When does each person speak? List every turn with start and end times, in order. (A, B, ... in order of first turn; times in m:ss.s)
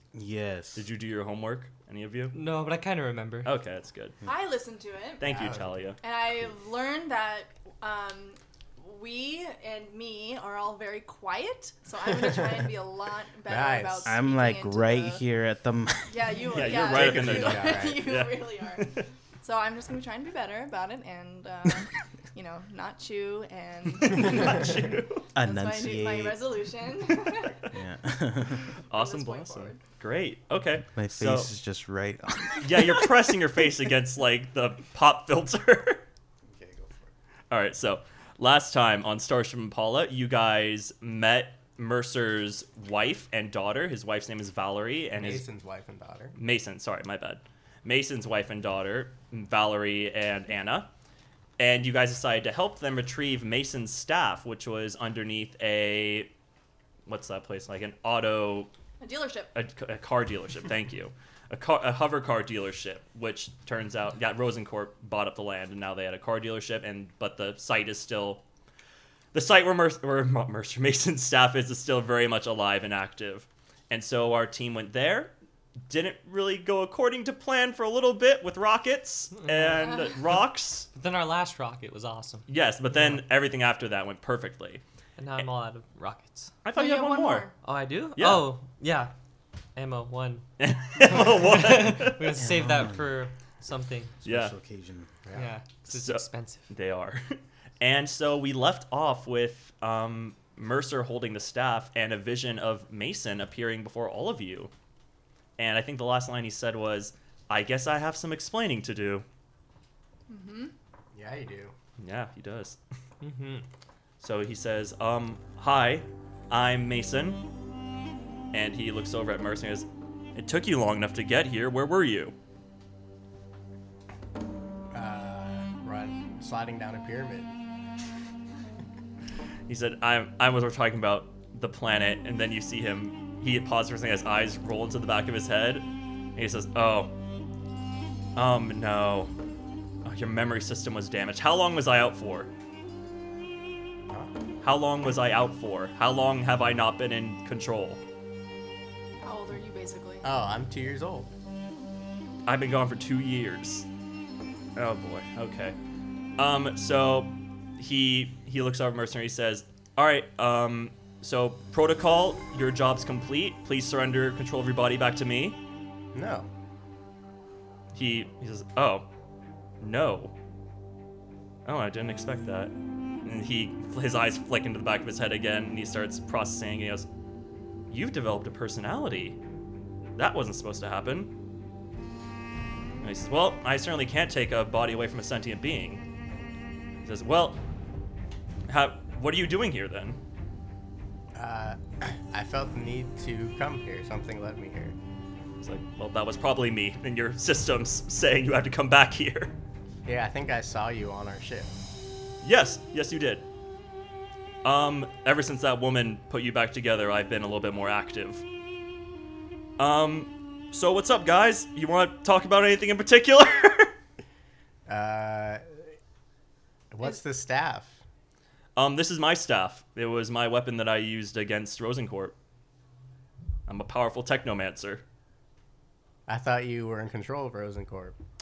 0:00.1-0:00.9 A
0:00.8-0:02.4 B
0:02.3-0:03.5 C
0:03.4-0:04.2 B
0:04.2-0:05.4 D
0:05.2-0:06.0 B
0:05.3-0:05.6 E
0:06.0-0:15.2 D
0:13.5-0:14.2 E
0:14.1-0:16.4 A
0:16.1-0:27.8 D
0:16.5-0:19.1 B
0:16.8-0:18.1 E
0:24.0-0:25.3 B
0:25.4-0:26.5 A
0:27.7-0:28.7 A
0:28.6-0:29.8 D
0:28.9-0:31.5 B
0:31.0-0:33.1 A
0:32.6-0:36.0 B
0:36.5-0:37.1 A
0:37.5-0:45.4 B
0:45.2-0:46.4 E
0:46.4-0:50.9 B
0:51.6-0:56.3 B
0:57.1-0:58.7 B
0:59.0-0:59.5 D
0:59.5-1:08.4 B
1:09.3-1:15.3 B
1:15.9-1:20.9 B
1:20.9-1:22.5 C
1:22.5-1:24.8 B
1:25.2-1:26.6 C
1:26.6-1:27.5 B
1:26.7-1:27.5 D
1:27.6-1:29.1 C
1:28.2-1:28.5 B
1:29.8-1:34.2 C
1:30.6-1:32.3 B
1:32.4-1:33.1 A
1:34.2-1:35.1 A
1:34.2-1:34.5 B
1:35.4-1:36.7 C
1:35.9-1:44.7 B
1:45.6-1:49.2 B
1:50.3-1:50.7 D
1:51.2-1:51.7 E
1:52.0-1:52.8 B
1:53.2-1:53.6 C
1:54.2-1:57.4 B
1:58.5-2:02.3 B
2:04.9-2:07.5 E
2:09.7-2:17.1 B
2:18.4-2:19.3 B
2:20.0-2:22.5 B
2:24.6-2:28.0 B
2:29.2-2:30.3 D
2:30.2-2:31.3 E
2:32.5-2:33.9 B
2:34.8-2:35.8 B
2:36.4-2:45.6 B
2:46.1-2:46.5 E
2:47.9-2:49.1 B
2:49.8-2:50.3 B
2:51.7-2:57.1 B
2:57.9-2:59.4 B
3:00.2-3:01.3 B
3:03.0-3:06.0 B
3:07.0-3:07.6 B
3:08.7-3:10.2 B
3:11.4-3:15.0 E
3:15.6-3:19.6 B
3:20.0-3:21.7 E
3:22.4-3:23.5 B
3:24.6-3:28.4 B
3:29.8-3:33.9 B
3:34.9-3:35.8 E
3:36.9-3:38.0 E
3:38.8-3:42.4 B
3:43.7-3:45.0 B
3:46.3-3:48.2 E